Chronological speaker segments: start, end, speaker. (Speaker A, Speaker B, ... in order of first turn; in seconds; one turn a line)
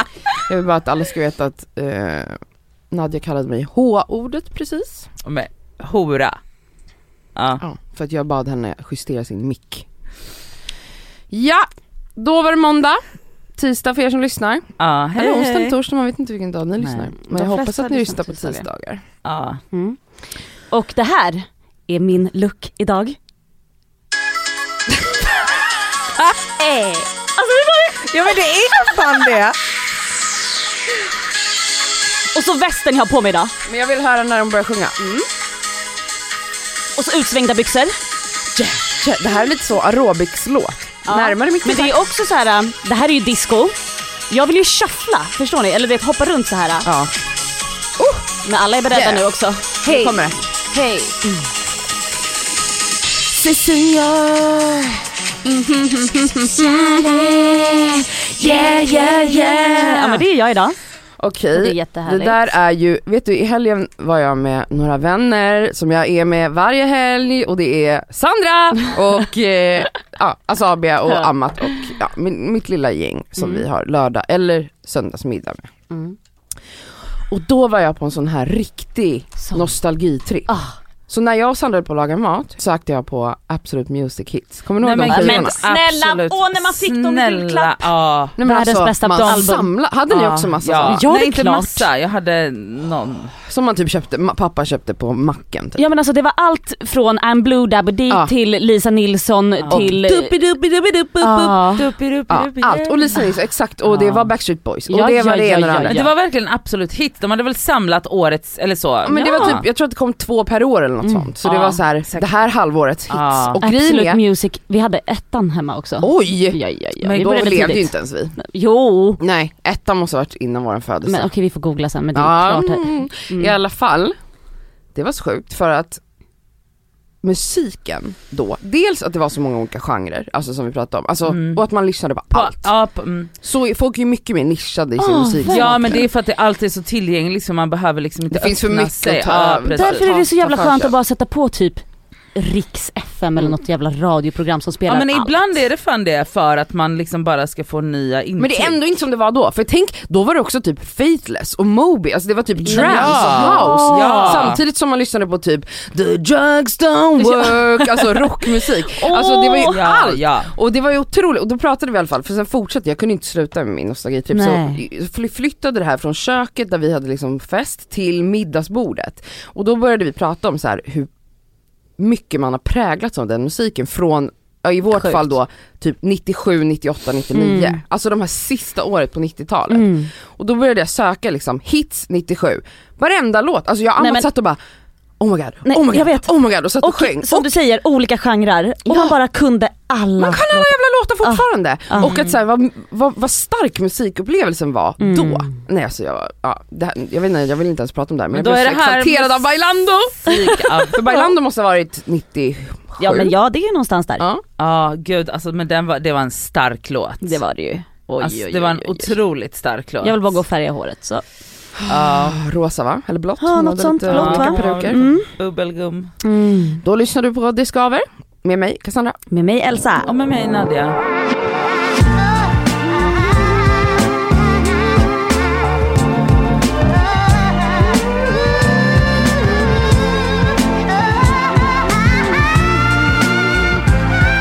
Speaker A: 0.4-2.4
Speaker A: 2.9-5.1
Speaker B: 5.2-6.4
Speaker B: 7.3-7.6
Speaker A: 7.6-9.9
Speaker A: 11.3-13.0
Speaker A: 13.6-19.0
Speaker B: 14.8-15.8
Speaker B: 16.8-17.1
Speaker C: 17.2-18.6
Speaker B: 19.2-19.6
Speaker C: 19.7-20.0
Speaker C: 20.7-23.2
Speaker C: 26.6-27.8
Speaker B: 28.0-29.5
Speaker C: 32.3-33.5
Speaker A: 33.7-35.0
Speaker C: 35.0-35.3
Speaker C: 37.0-37.9
Speaker A: 38.5-41.9
Speaker C: 41.0-43.8
Speaker C: 44.3-46.9
Speaker A: 46.8-47.1
Speaker A: 48.0-48.2
Speaker C: 48.4-51.5
Speaker A: 48.9-49.2
Speaker A: 49.8-50.4
Speaker A: 53.3-55.0
Speaker C: 55.5-57.3
Speaker A: 57.0-60.2
Speaker C: 58.4-60.8
Speaker A: 61.2-75.7
Speaker C: 61.5-62.5
Speaker C: 73.4-73.6
Speaker C: 75.9-76.2
Speaker A: 77.3-80.5
Speaker C: 79.4-79.7
Speaker C: 80.5-80.8
Speaker A: 81.1-85.6
Speaker B: 84.8-88.4
Speaker C: 85.1-87.9
Speaker A: 88.4-91.0
Speaker C: 88.4-89.7
Speaker B: 90.1-93.3
Speaker C: 90.9-91.9
Speaker A: 93.4-95.8
Speaker C: 95.8-100.4
Speaker B: 99.6-103.1
Speaker A: 99.7-100.0
Speaker C: 101.2-101.9
Speaker A: 102.3-106.0
Speaker B: 103.9-104.3
Speaker C: 104.9-106.1
Speaker B: 105.8-109.6
Speaker A: 109.0-114.2
Speaker C: 111.0-111.3
Speaker B: 111.4-112.3
Speaker B: 113.1-113.6
Speaker C: 113.6-119.2
Speaker A: 116.0-116.6
Speaker B: 117.0-117.7
Speaker A: 117.1-118.4
Speaker A: 119.2-121.3
Speaker C: 121.1-123.5
Speaker A: 122.1-124.2
Speaker A: 124.9-126.0
Speaker A: 127.2-132.7
Speaker B: 131.3-131.6
Speaker B: 132.3-133.3
Speaker A: 133.4-136.0
Speaker C: 135.0-136.1
Speaker B: 135.4-140.2
Speaker A: 138.3-140.9
Speaker C: 139.7-141.8
Speaker C: 142.3-145.3
Speaker B: 144.9-148.8
Speaker A: 148.4-171.1
Speaker B: 152.6-154.6
Speaker C: 152.7-154.6
Speaker C: 158.9-159.8
Speaker B: 159.7-160.5
Speaker C: 164.3-164.8
Speaker A: 172.0-184.6
Speaker C: 174.9-175.3
Speaker C: 177.3-177.8
Speaker C: 179.7-180.1
Speaker C: 184.0-184.3
Speaker A: 185.2-187.5
Speaker C: 185.7-192.2
Speaker A: 188.9-189.2
Speaker A: 190.2-203.3
Speaker C: 195.0-195.6
Speaker B: 198.3-199.5
Speaker B: 200.2-201.3
Speaker C: 203.0-204.2
Speaker B: 204.6-207.4
Speaker C: 207.2-209.1
Speaker B: 208.2-210.4
Speaker C: 210.0-211.2
Speaker A: 211.8-215.1
Speaker B: 211.9-212.4
Speaker C: 213.4-215.3
Speaker B: 214.1-216.1
Speaker C: 216.2-216.8
Speaker A: 216.8-219.2
Speaker C: 219.3-220.1
Speaker B: 220.1-221.0